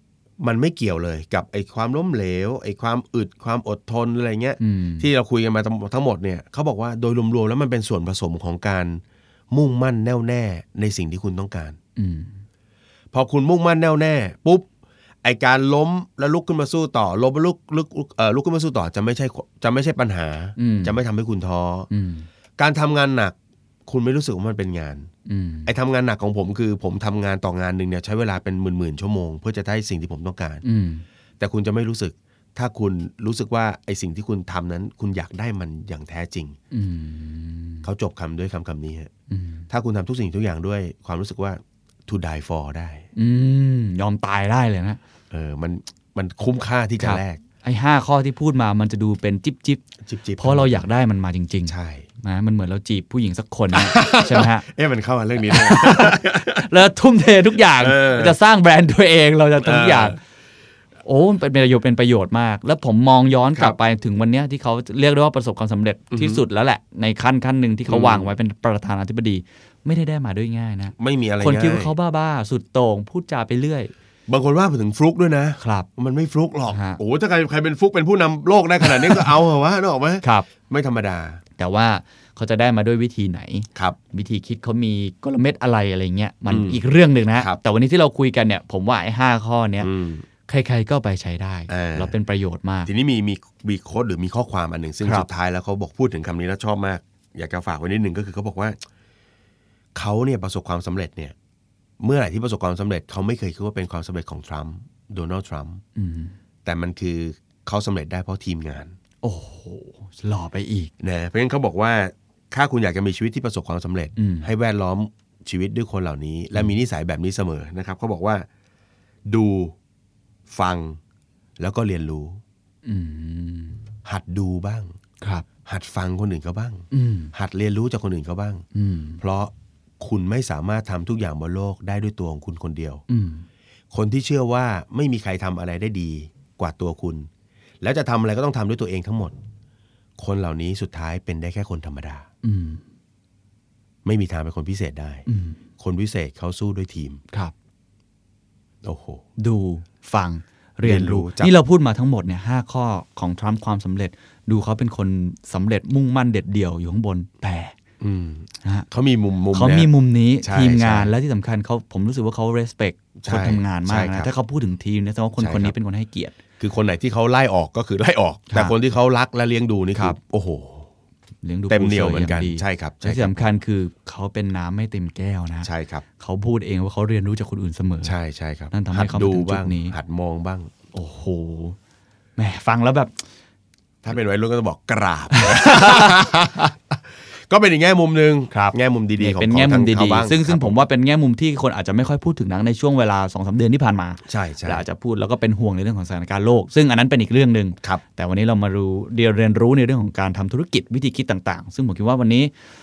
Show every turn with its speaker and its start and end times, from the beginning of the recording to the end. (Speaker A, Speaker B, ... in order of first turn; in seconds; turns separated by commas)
Speaker A: 0.4-11.8, Speaker B: 4.6-5.1, Speaker B: 12.0-12.3, Speaker A: 13.1-14.7, Speaker A: 15.2-21.9, Speaker B: 20.6-21.0, Speaker B: 21.9-22.3, Speaker A: 22.6-23.4, Speaker A: 23.9-25.1, Speaker B: 25.3-25.7, Speaker A: 25.7-30.6, Speaker B: 30.6-31.1, Speaker A: 31.4-36.6, Speaker B: 36.7-37.9, Speaker A: 37.8-39.1, Speaker B: 39.3-39.6, Speaker A: 39.7-43.0, Speaker B: 43.2-45.0, Speaker A: 45.3-47.4, Speaker B: 47.0-49.8, Speaker A: 50.0-50.9, Speaker B: 50.4-54.6, Speaker A: 51.7-52.1, Speaker A: 53.7-56.7, Speaker B: 55.5-60.2, Speaker A: 57.8-58.4, Speaker A: 59.6-60.2, Speaker B: 61.1-73.9, Speaker A: 66.1-66.4, Speaker A: 67.9-68.3, Speaker A: 71.0-71.9, Speaker A: 74.3-81.4, Speaker B: 75.6-75.9, Speaker B: 76.7-77.0, Speaker B: 80.2-80.5, Speaker B: 81.6-89.9, Speaker A: 86.5-86.8, Speaker A: 89.8-90.2, Speaker B: 90.5-92.9, Speaker A: 91.7-92.1, Speaker A: 92.9-98.8, Speaker B: 95.0-95.3, Speaker A: 100.0-101.3, Speaker A: 102.0-105.8, Speaker B: 106.0-106.4, Speaker A: 106.7-108.9, Speaker B: 109.2-110.9, Speaker A: 111.0-118.5, Speaker B: 114.2-114.5, Speaker A: 119.3-119.8, Speaker A: 120.5-121.0, Speaker A: 121.6-122.4, Speaker B: 122.8-123.8, Speaker A: 124.0-124.9, Speaker B: 125.2-125.5, Speaker A: 125.7-128.7, Speaker B: 126.9-127.3, Speaker B: 128.7-129.2, Speaker A: 129.2-133.0, Speaker B: 133.1-133.4, Speaker A: 133.9-137.3, Speaker A: 137.8-139.4, Speaker A: 140.2-142.3, Speaker B: 142.4-142.8, Speaker A: 144.1-145.3, Speaker B: 145.3-145.6, Speaker A: 145.8-147.2, Speaker A: 148.8-149.2, Speaker B: 149.4-157.7, Speaker A: 150.8-151.5, Speaker A: 158.0-159.9, Speaker B: 159.5-166.4, Speaker A: 160.4-161.1, Speaker A: 163.2-164.3, Speaker A: 165.4-165.7, Speaker A: 166.6-170.9, Speaker B: 168.5-168.8, Speaker B: 171.4-178.2, Speaker A: 171.7-173.4, Speaker A: 175.6-176.1, Speaker A: 178.0-180.7, Speaker B: 178.7-179.9, Speaker B: 180.9-181.8, Speaker B: 182.4-183.1, Speaker A: 184.0-190.8, Speaker B: 185.3-186.1, Speaker B: 188.5-202.5, Speaker A: 194.3-194.8